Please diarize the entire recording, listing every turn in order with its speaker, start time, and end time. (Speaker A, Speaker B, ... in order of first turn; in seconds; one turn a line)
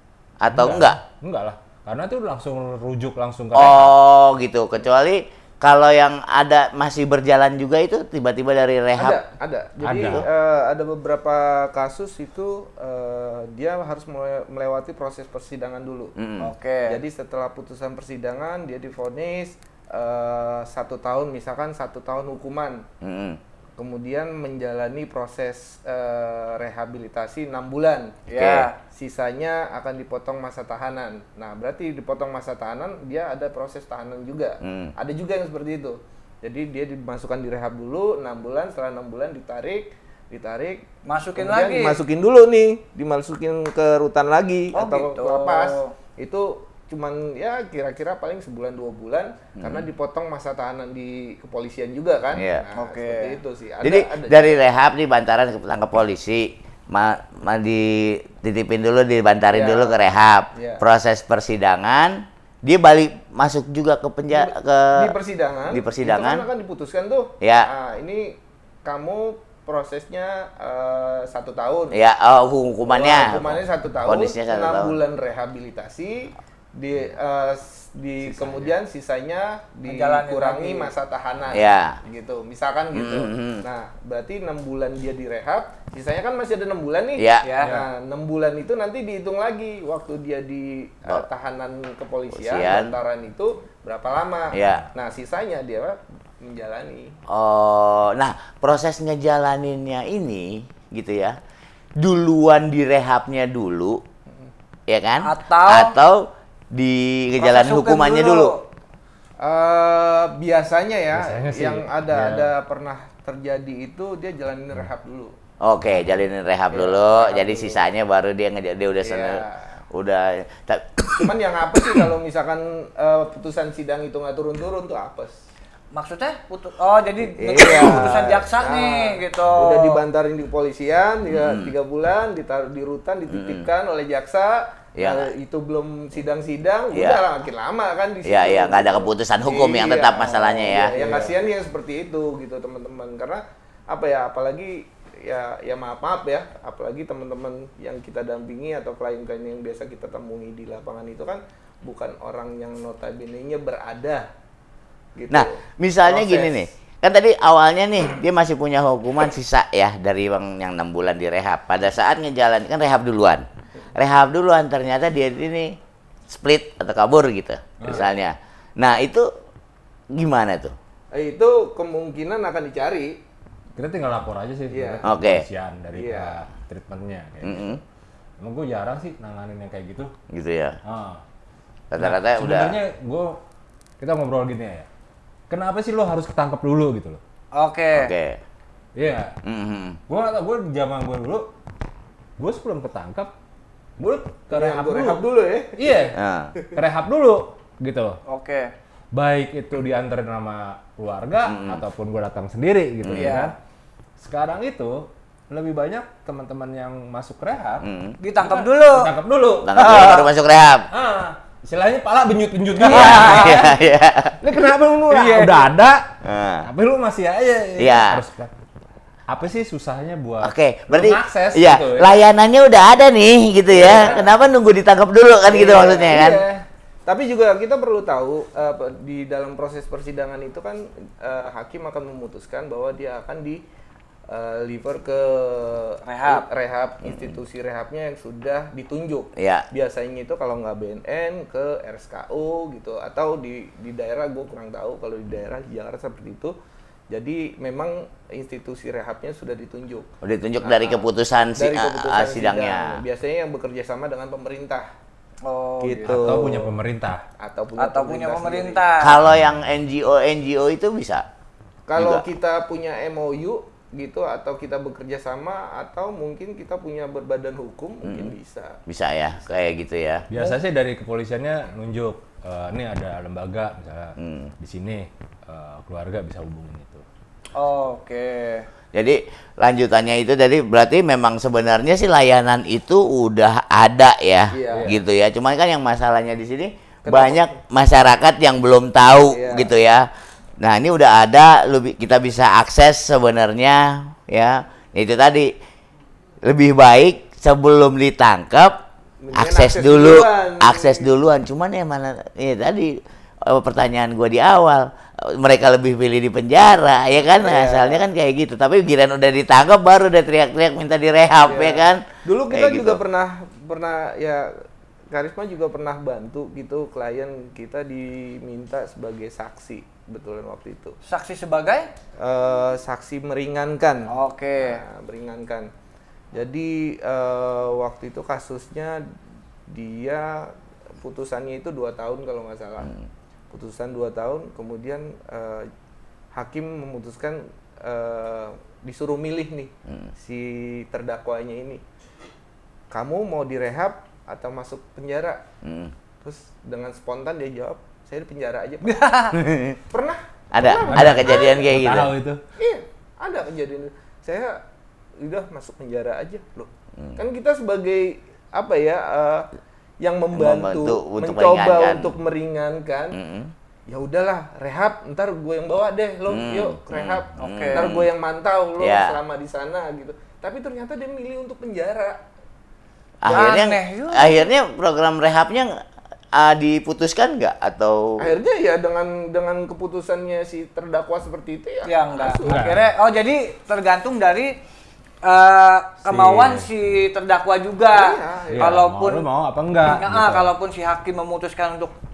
Speaker A: 0.4-1.0
Speaker B: 0.5-3.9
Speaker A: 3.5-9.2
Speaker C: 9.0-16.1
Speaker B: 9.8-10.2
Speaker A: 16.2-16.5
Speaker D: 16.4-17.0
Speaker C: 16.9-22.9
Speaker A: 23.0-23.4
Speaker C: 23.8-28.2
Speaker D: 28.3-28.8
Speaker A: 28.3-28.7
Speaker C: 28.9-40.8
Speaker A: 34.6-34.9
Speaker D: 41.0-42.0
Speaker C: 41.4-54.5
Speaker D: 44.7-45.9
Speaker A: 49.6-49.9
Speaker A: 52.3-52.6
Speaker D: 52.8-53.4
Speaker A: 53.8-65.1
Speaker C: 59.5-60.0
Speaker C: 60.5-60.8
Speaker C: 64.3-72.0
Speaker A: 65.7-66.5
Speaker A: 67.4-67.7
Speaker A: 71.9-75.0
Speaker C: 72.9-97.2
Speaker B: 78.3-78.7
Speaker D: 79.9-80.9
Speaker A: 81.5-82.0
Speaker A: 82.9-83.6
Speaker A: 87.2-87.5
Speaker D: 87.4-87.7
Speaker B: 87.6-87.9
Speaker A: 92.3-93.0
Speaker A: 94.5-94.9
Speaker A: 97.3-101.4
Speaker A: 102.0-104.0
Speaker A: 104.9-108.5
Speaker D: 105.2-106.0
Speaker D: 107.4-108.6
Speaker C: 109.4-115.3
Speaker B: 111.1-112.5
Speaker A: 115.6-121.3
Speaker C: 116.7-117.8
Speaker C: 119.0-119.7
Speaker C: 121.2-125.3
Speaker D: 125.9-130.0
Speaker C: 127.4-154.3
Speaker A: 127.5-128.2
Speaker A: 131.2-131.7
Speaker A: 133.3-133.7
Speaker A: 135.0-135.3
Speaker A: 136.9-137.2
Speaker A: 138.2-141.3
Speaker D: 140.5-140.8
Speaker C: 155.2-156.7
Speaker A: 155.3-165.8
Speaker A: 166.3-169.3
Speaker B: 167.8-168.1
Speaker A: 170.1-170.8
Speaker C: 171.1-173.2
Speaker B: 173.8-177.8
Speaker C: 174.7-175.1
Speaker A: 175.1-175.4
Speaker C: 175.9-176.3
Speaker A: 177.4-177.8
Speaker B: 178.4-180.1
Speaker A: 180.3-180.8
Speaker B: 180.8-181.2
Speaker A: 181.9-182.8
Speaker B: 181.9-183.4
Speaker B: 184.0-184.9
Speaker B: 185.5-187.2
Speaker D: 187.6-188.1
Speaker A: 187.9-188.4
Speaker B: 189.0-189.3
Speaker A: 189.4-190.0
Speaker B: 190.1-191.5
Speaker B: 192.4-193.3
Speaker B: 194.0-195.2
Speaker C: 194.5-196.8
Speaker B: 195.8-196.2
Speaker A: 196.2-196.5
Speaker B: 196.7-198.2
Speaker D: 198.3-198.7
Speaker B: 199.1-203.6
Speaker A: 201.5-201.8
Speaker A: 203.0-203.3
Speaker D: 203.1-203.5
Speaker B: 204.2-207.8
Speaker A: 207.8-208.2
Speaker D: 208.2-209.1
Speaker B: 208.4-210.2
Speaker A: 209.6-210.9
Speaker D: 209.8-210.3
Speaker B: 210.9-213.8
Speaker A: 212.8-214.4
Speaker D: 212.9-213.6
Speaker B: 214.4-216.0
Speaker D: 215.1-215.7
Speaker A: 216.2-216.7
Speaker B: 216.6-218.5
Speaker A: 217.8-218.2
Speaker B: 219.3-222.2
Speaker A: 220.4-226.4
Speaker B: 223.7-224.3
Speaker C: 223.8-224.2
Speaker C: 225.5-226.5
Speaker B: 226.0-226.6
Speaker C: 227.1-233.6
Speaker C: 234.3-246.6
Speaker D: 236.1-236.5
Speaker A: 239.4-239.7
Speaker C: 247.1-250.1
Speaker A: 250.2-253.0
Speaker C: 250.6-251.0
Speaker C: 251.6-254.9
Speaker D: 255.4-256.4
Speaker C: 255.8-256.8
Speaker B: 256.0-257.2
Speaker C: 257.4-258.9
Speaker D: 257.8-259.2
Speaker A: 259.0-261.2
Speaker C: 261.9-268.8
Speaker A: 262.0-262.2
Speaker A: 268.0-268.4
Speaker A: 268.9-270.3
Speaker B: 270.3-277.1
Speaker A: 274.2-274.5
Speaker D: 277.5-278.7
Speaker A: 278.9-290.1
Speaker C: 284.5-284.9
Speaker B: 284.7-285.0
Speaker C: 287.1-287.6
Speaker C: 289.3-289.7
Speaker A: 290.6-295.5
Speaker A: 296.4-298.8
Speaker C: 299.2-301.1
Speaker A: 299.4-313.0
Speaker C: 307.4-308.0
Speaker C: 311.4-314.5
Speaker C: 315.1-321.0
Speaker D: 321.0-321.9
Speaker C: 322.2-325.7
Speaker D: 324.1-324.8
Speaker C: 326.3-329.1
Speaker C: 329.7-332.9
Speaker C: 333.5-335.7
Speaker C: 336.3-341.8
Speaker C: 342.9-345.4
Speaker A: 345.6-345.9
Speaker C: 346.2-349.0
Speaker D: 348.8-349.4
Speaker A: 349.4-349.8
Speaker C: 349.9-351.6
Speaker A: 350.5-352.1
Speaker B: 350.9-352.4
Speaker C: 352.6-354.6
Speaker C: 355.2-359.5
Speaker C: 360.0-363.2
Speaker A: 360.3-362.1
Speaker A: 363.1-363.5
Speaker C: 363.9-372.2
Speaker A: 366.3-368.1
Speaker D: 367.4-367.9
Speaker A: 368.8-369.2
Speaker A: 373.2-375.8
Speaker D: 373.3-374.4
Speaker A: 376.3-378.3
Speaker C: 378.2-382.6
Speaker D: 381.9-384.6
Speaker B: 382.5-382.9
Speaker D: 385.2-389.2
Speaker B: 386.1-386.7
Speaker C: 387.9-388.8
Speaker B: 388.5-390.5
Speaker D: 389.9-391.9